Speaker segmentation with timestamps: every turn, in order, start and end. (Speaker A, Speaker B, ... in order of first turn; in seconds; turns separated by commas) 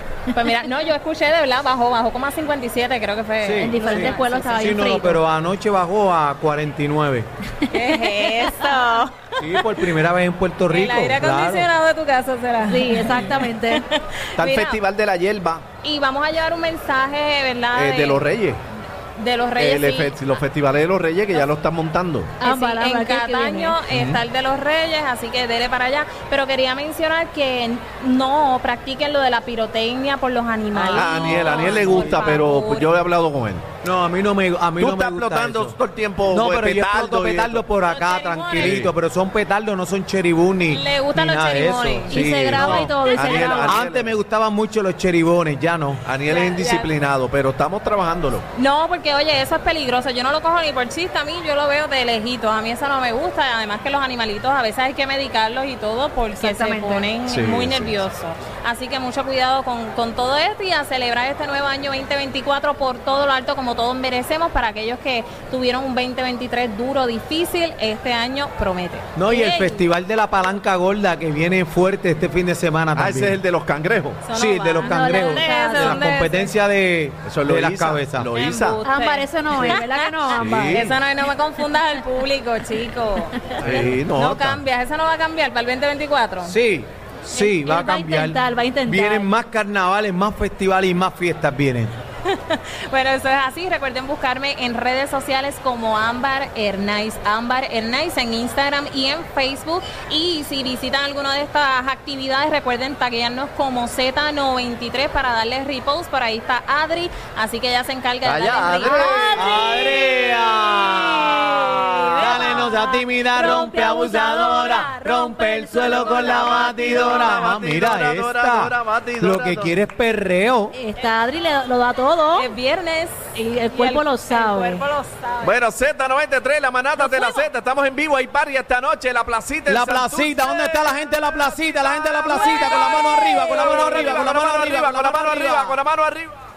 Speaker A: 0.3-4.8, Speaker B: 3.4-7.3, Speaker C: 3.6-5.2, Speaker A: 7.7-9.7, Speaker C: 7.7-8.6, Speaker B: 9.4-11.7, Speaker A: 10.7-14.8, Speaker C: 12.7-13.8, Speaker D: 14.4-15.6, Speaker A: 15.8-18.3, Speaker D: 17.7-18.6, Speaker A: 19.1-20.2, Speaker D: 19.6-22.4, Speaker C: 22.4-23.8, Speaker A: 22.4-33.0, Speaker D: 23.9-24.2, Speaker B: 30.7-32.2, Speaker D: 30.9-33.6, Speaker C: 31.4-31.8, Speaker B: 33.8-35.8, Speaker D: 34.8-37.6, Speaker B: 36.3-46.0, Speaker A: 37.9-38.9, Speaker D: 38.5-38.9, Speaker A: 40.7-42.3, Speaker C: 42.1-43.8, Speaker D: 42.3-44.1, Speaker D: 46.0-48.4, Speaker A: 46.3-46.9, Speaker A: 48.5-69.8, Speaker C: 56.3-57.1, Speaker D: 57.3-58.0, Speaker B: 69.2-73.4, Speaker D: 72.9-74.2, Speaker A: 74.2-76.5, Speaker B: 74.3-78.3, Speaker C: 74.8-76.1, Speaker D: 77.2-78.8, Speaker A: 78.3-83.5, Speaker C: 78.8-80.9, Speaker D: 80.3-81.0, Speaker B: 83.6-84.0, Speaker D: 83.6-84.6, Speaker A: 84.1-86.5, Speaker B: 86.4-91.9, Speaker C: 87.3-89.3, Speaker A: 92.2-109.5, Speaker D: 108.2-109.5, Speaker C: 108.8-117.4, Speaker B: 109.3-120.8, Speaker A: 112.2-112.7, Speaker D: 115.8-119.8, Speaker C: 120.7-122.5, Speaker A: 122.3-125.5, Speaker C: 123.3-124.8, Speaker D: 125.4-130.9, Speaker A: 127.0-127.5, Speaker B: 129.7-135.8, Speaker D: 131.8-136.3, Speaker A: 132.3-134.1